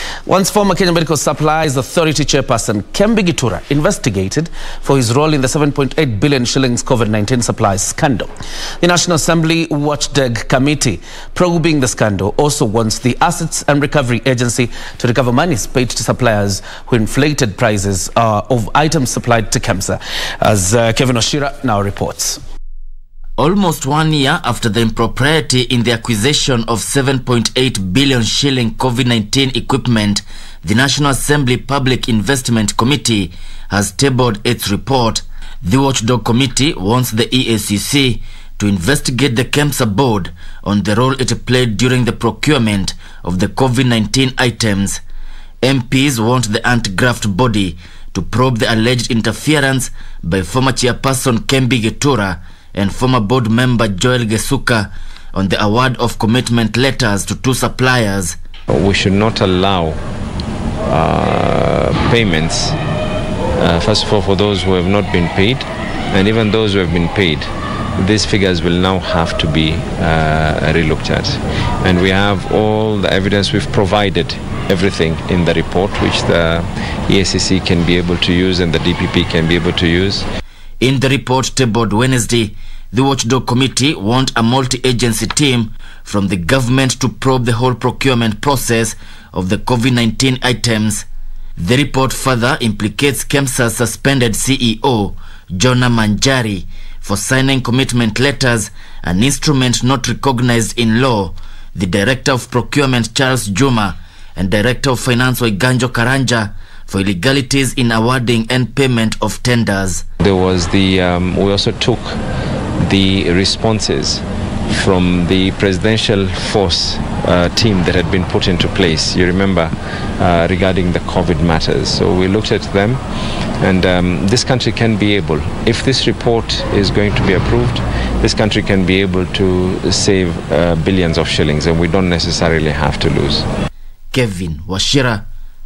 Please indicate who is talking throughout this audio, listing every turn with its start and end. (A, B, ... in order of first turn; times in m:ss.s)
0:00.3-0:08.3 A
0:08.8-0:22.4 A
0:23.4-0:45.0 B
0:45.6-0:58.4 B
0:58.7-1:00.0 C
1:00.9-1:02.8 C
1:03.6-1:20.2 C
1:20.8-1:31.1 B
1:31.6-1:50.0 B
1:50.2-1:52.2 C
1:52.8-2:03.0 C
2:03.6-2:13.5 C
2:14.1-2:15.2 B